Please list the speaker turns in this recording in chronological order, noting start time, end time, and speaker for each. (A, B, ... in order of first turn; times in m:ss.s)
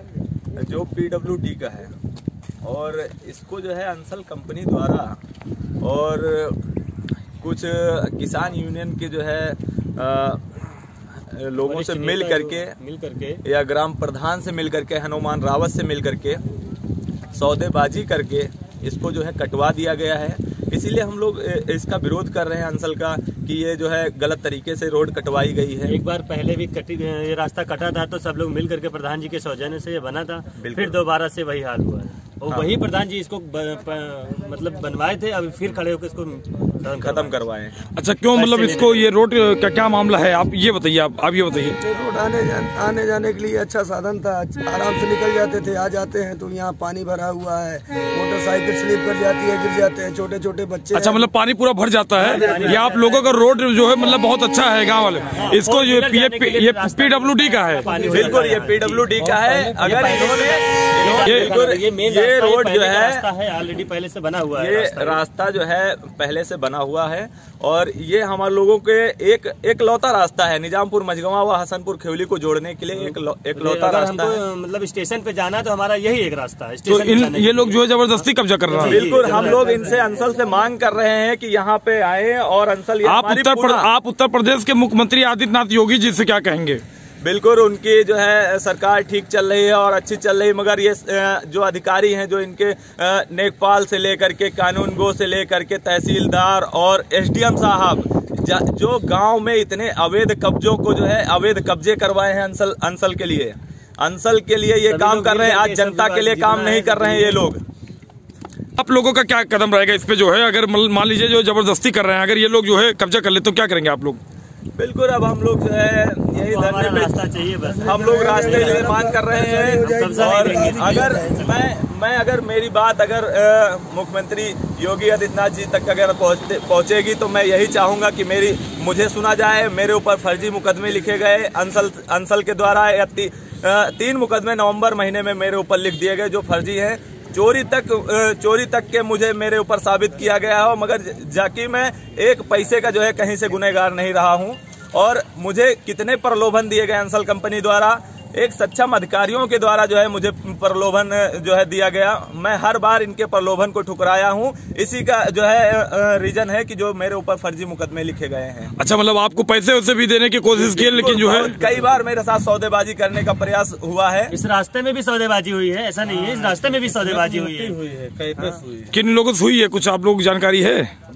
0:00.6-0:01.9 A
0:02.6-0:05.2 A
0:05.8-0:06.6 A
0:07.4-0:10.6 A
0:11.3-0:12.7 A
0:11.6-0:13.4 B
0:13.4-0:16.4 A
0:17.3-0:26.0 A
0:25.8-0:37.4 B
0:30.6-0:31.0 A
0:32.5-0:32.8 A
0:37.0-0:37.8 A
0:38.0-0:41.8 C
0:38.3-0:39.1 B
0:41.8-0:51.3 D
0:50.9-0:58.1 C
0:52.2-0:52.8 D
0:52.3-0:53.3 B
0:55.3-1:05.2 B
0:57.9-1:03.2 A
1:01.1-1:01.5 C
1:04.5-1:14.4 A
1:12.9-1:20.1 B
1:16.9-1:19.2 C
1:18.8-1:23.9 A
1:23.0-1:26.8 C
1:27.2-1:47.6 A
1:44.9-1:47.5 B
1:48.8-1:54.2 C
1:54.8-1:57.2 A
1:56.4-1:58.9 B
1:57.8-2:01.5 D
1:57.8-2:38.7 A
1:59.8-2:01.5 B
2:38.8-2:41.5 C
2:40.5-2:44.3 A
2:41.6-2:41.8 B
2:44.3-2:47.8 B
2:46.1-2:48.9 A
2:48.9-2:50.9 C